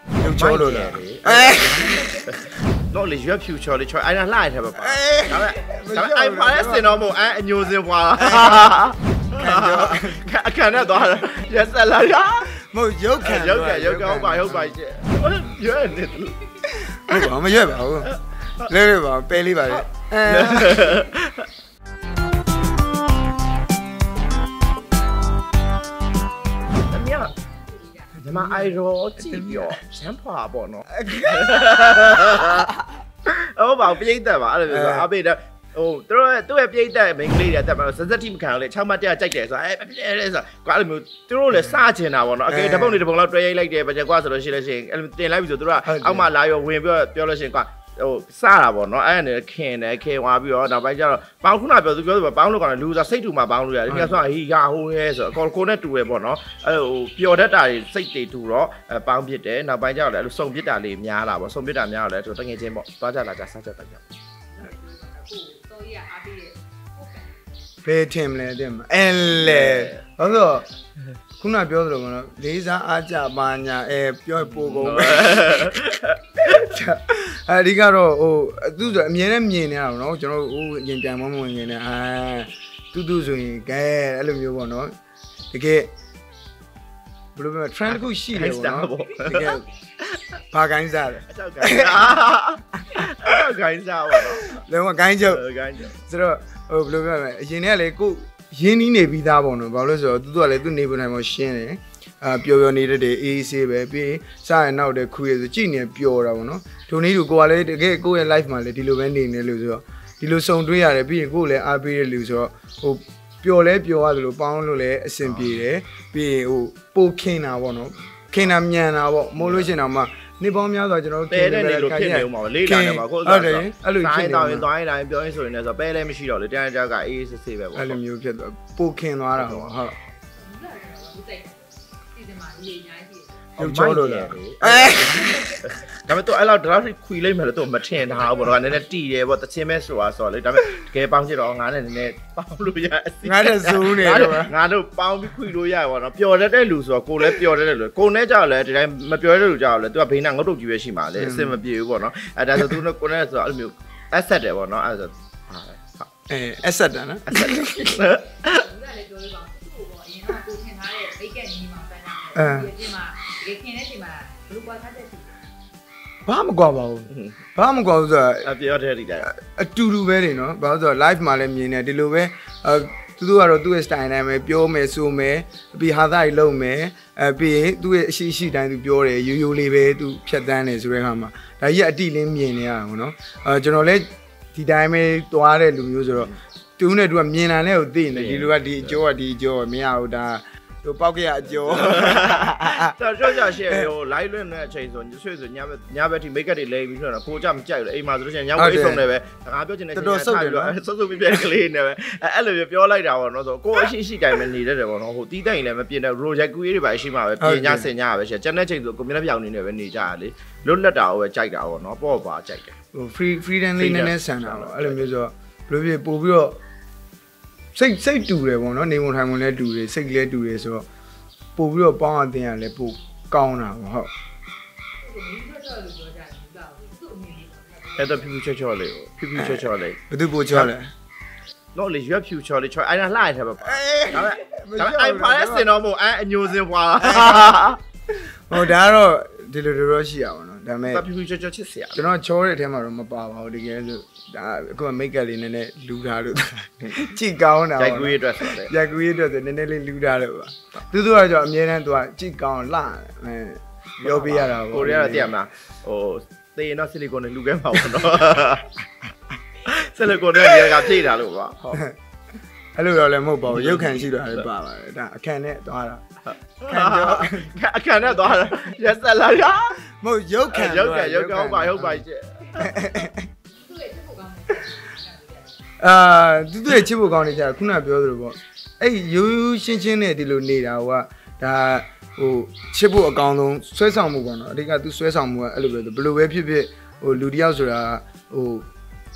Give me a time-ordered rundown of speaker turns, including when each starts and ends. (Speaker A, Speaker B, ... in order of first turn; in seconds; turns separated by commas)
Speaker A: 0.2-2.2, Speaker B: 0.2-12.5, Speaker A: 4.8-7.0, Speaker A: 8.2-8.7, Speaker A: 9.4-10.2, Speaker A: 12.5-14.7, Speaker B: 13.2-16.4, Speaker A: 16.7-18.1, Speaker B: 18.0-18.7, Speaker A: 18.7-21.0, Speaker B: 19.7-21.5, Speaker B: 26.8-27.3, Speaker C: 27.1-28.3, Speaker B: 28.2-32.7, Speaker A: 28.2-29.8, Speaker A: 30.9-32.6, Speaker B: 33.2-64.0, Speaker A: 34.7-35.1, Speaker A: 42.5-43.0, Speaker A: 45.8-46.3, Speaker A: 53.9-54.2, Speaker C: 64.5-67.7, Speaker A: 67.8-70.7, Speaker B: 69.3-70.1, Speaker A: 71.4-84.9, Speaker B: 74.5-76.6, Speaker A: 85.5-85.9, Speaker A: 87.3-89.7, Speaker B: 87.9-90.2, Speaker A: 90.5-92.1, Speaker B: 91.3-94.5, Speaker A: 94.5-95.4, Speaker B: 95.3-96.0, Speaker A: 96.0-124.7, Speaker B: 115.2-115.6, Speaker B: 119.4-119.7, Speaker B: 121.3-128.0, Speaker A: 127.7-130.0, Speaker B: 129.3-129.7, Speaker C: 130.3-133.5, Speaker A: 133.6-135.3, Speaker B: 133.6-156.1, Speaker C: 135.1-135.6, Speaker A: 143.2-144.5, Speaker A: 151.2-151.6, Speaker A: 156.3-158.0, Speaker B: 157.3-158.7, Speaker C: 158.4-165.3, Speaker A: 162.3-162.7, Speaker A: 166.2-168.5, Speaker B: 167.1-167.4, Speaker B: 168.4-169.3, Speaker A: 169.2-192.9, Speaker B: 188.1-189.0, Speaker B: 191.7-212.8, Speaker A: 198.6-199.0, Speaker A: 199.9-200.7, Speaker A: 207.4-207.9, Speaker A: 212.9-216.6, Speaker B: 213.8-215.0, Speaker A: 217.7-220.8, Speaker A: 221.6-224.1, Speaker C: 225.0-228.3, Speaker B: 228.0-230.7, Speaker A: 229.3-230.9, Speaker B: 231.7-237.8, Speaker A: 233.6-235.7, Speaker A: 237.0-237.5, Speaker A: 238.1-241.0, Speaker B: 240.9-242.0, Speaker A: 241.9-255.3, Speaker B: 247.8-248.7, Speaker B: 254.0-258.7, Speaker B: 259.6-261.8, Speaker A: 262.8-266.0, Speaker B: 263.4-264.4, Speaker B: 266.2-269.8, Speaker A: 266.7-267.5, Speaker A: 269.9-272.0, Speaker B: 270.5-272.8, Speaker C: 272.6-275.6, Speaker A: 272.6-273.3, Speaker A: 275.8-288.7